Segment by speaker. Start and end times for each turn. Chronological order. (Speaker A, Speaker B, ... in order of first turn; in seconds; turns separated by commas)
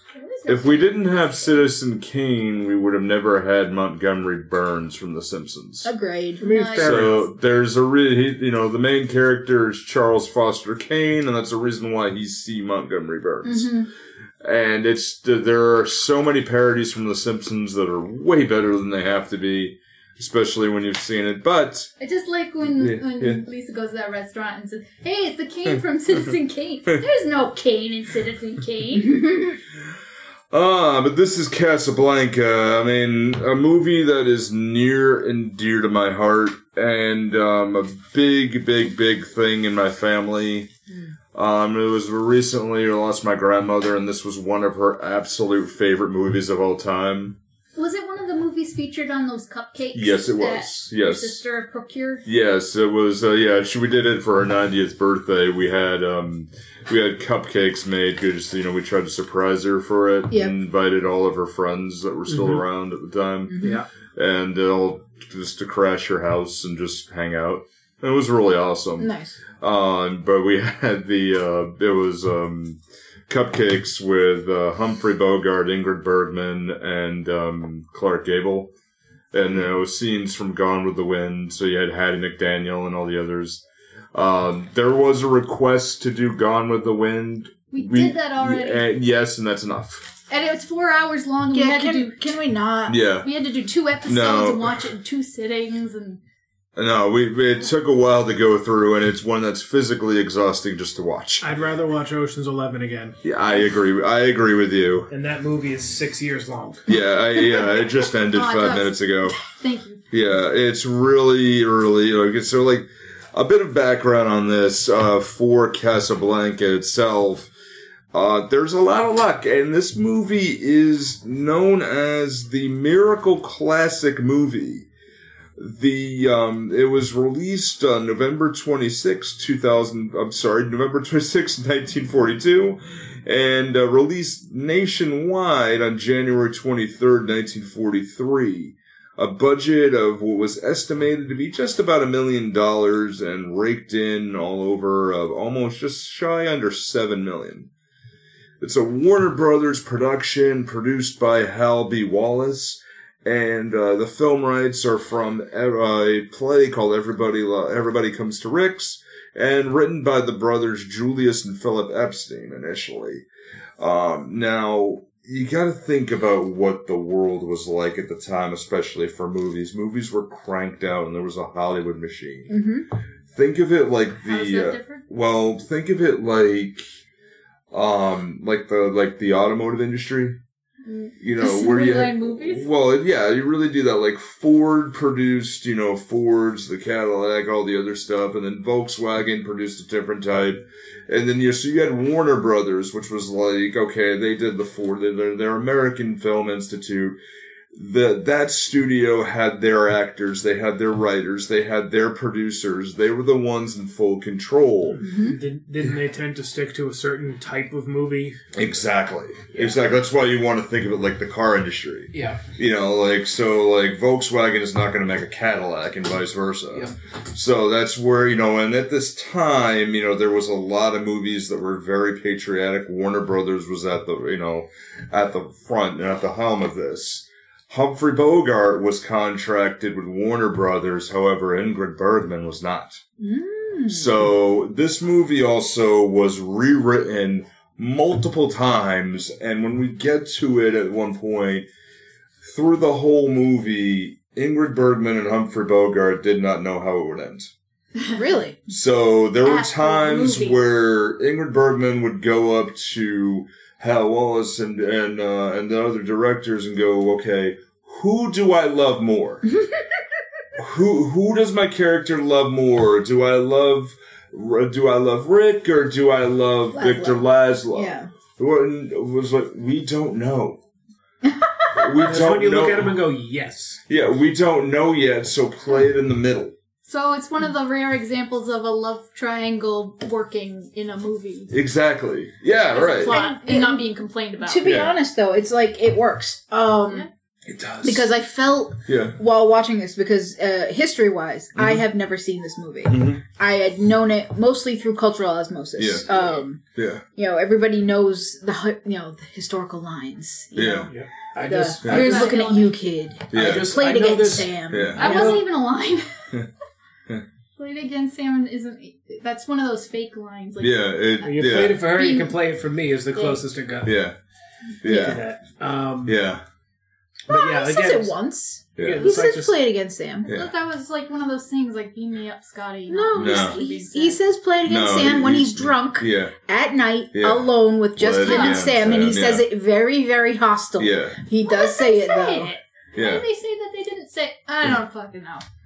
Speaker A: 0.1-1.6, Speaker B: 0.5-5.9, Speaker C: 5.8-6.5, Speaker D: 6.4-7.2, Speaker A: 6.4-7.1, Speaker B: 6.8-13.7, Speaker C: 13.4-13.9, Speaker B: 14.4-21.9, Speaker A: 22.0-29.2, Speaker B: 22.7-23.4, Speaker B: 25.7-26.2, Speaker C: 29.1-29.6, Speaker B: 30.5-40.7, Speaker C: 40.9-41.1, Speaker B: 41.3-47.4, Speaker A: 47.8-52.2, Speaker B: 49.9-51.4, Speaker B: 52.2-63.6, Speaker C: 60.3-60.6, Speaker D: 62.3-62.6, Speaker C: 63.5-63.8, Speaker D: 63.6-63.9, Speaker B: 64.2-78.7, Speaker C: 69.0-69.4, Speaker B: 79.3-83.6, Speaker B: 84.1-90.1, Speaker A: 87.7-88.8, Speaker A: 90.3-92.2, Speaker C: 91.5-93.0, Speaker B: 92.9-93.3, Speaker A: 93.2-96.2, Speaker B: 94.0-94.8, Speaker B: 96.8-101.5, Speaker D: 101.4-103.2, Speaker B: 103.2-105.1, Speaker D: 105.1-106.8, Speaker B: 106.9-109.3, Speaker A: 108.2-110.0, Speaker B: 110.1-117.5, Speaker B: 118.1-124.9, Speaker B: 125.6-147.7, Speaker B: 148.6-163.2, Speaker B: 163.8-172.5, Speaker C: 172.5-172.8, Speaker B: 173.3-176.8, Speaker A: 174.2-175.0, Speaker B: 177.7-180.4, Speaker A: 180.8-182.7, Speaker B: 181.2-197.2, Speaker B: 197.7-205.0, Speaker D: 204.9-208.4, Speaker C: 205.0-205.4, Speaker B: 208.5-233.0, Speaker D: 209.5-209.8, Speaker D: 212.1-212.4, Speaker C: 233.2-234.2, Speaker B: 233.9-241.7, Speaker B: 242.4-247.5, Speaker C: 248.1-248.6, Speaker B: 248.7-259.4, Speaker A: 249.4-250.6, Speaker B: 260.6-270.6, Speaker C: 266.7-267.2, Speaker C: 267.7-268.1, Speaker C: 271.2-271.7, Speaker B: 271.7-273.0, Speaker D: 272.0-273.8, Speaker B: 273.9-276.5, Speaker A: 276.9-281.5, Speaker B: 281.5-283.2, Speaker A: 282.7-284.7, Speaker C: 283.1-283.8, Speaker C: 284.4-287.1, Speaker B: 284.6-284.9, Speaker D: 287.4-288.1, Speaker C: 287.8-296.6, Speaker B: 288.9-289.2, Speaker B: 292.9-293.2, Speaker B: 295.8-296.0, Speaker A: 296.1-296.4, Speaker B: 296.8-297.0, Speaker C: 297.1-300.9, Speaker B: 300.5-300.9, Speaker D: 300.9-302.4, Speaker C: 301.4-305.4, Speaker B: 301.8-302.1, Speaker A: 301.9-302.7, Speaker B: 303.3-303.8, Speaker D: 303.3-305.4, Speaker B: 304.7-305.1, Speaker A: 305.0-306.1, Speaker A: 307.6-311.4, Speaker B: 310.6-311.8, Speaker D: 311.2-313.9, Speaker A: 312.0-312.3, Speaker A: 313.1-313.4, Speaker B: 313.8-314.1, Speaker B: 314.8-315.2, Speaker C: 314.8-315.2, Speaker D: 314.9-316.2, Speaker B: 316.0-316.4, Speaker D: 317.3-318.1, Speaker C: 317.3-320.3, Speaker B: 318.8-319.0, Speaker D: 318.8-319.5, Speaker A: 320.2-324.2, Speaker C: 322.9-332.5, Speaker B: 323.1-323.6, Speaker B: 324.6-326.3, Speaker B: 327.1-329.4, Speaker A: 328.2-328.6, Speaker B: 330.8-331.2, Speaker A: 331.5-335.4, Speaker B: 332.9-333.2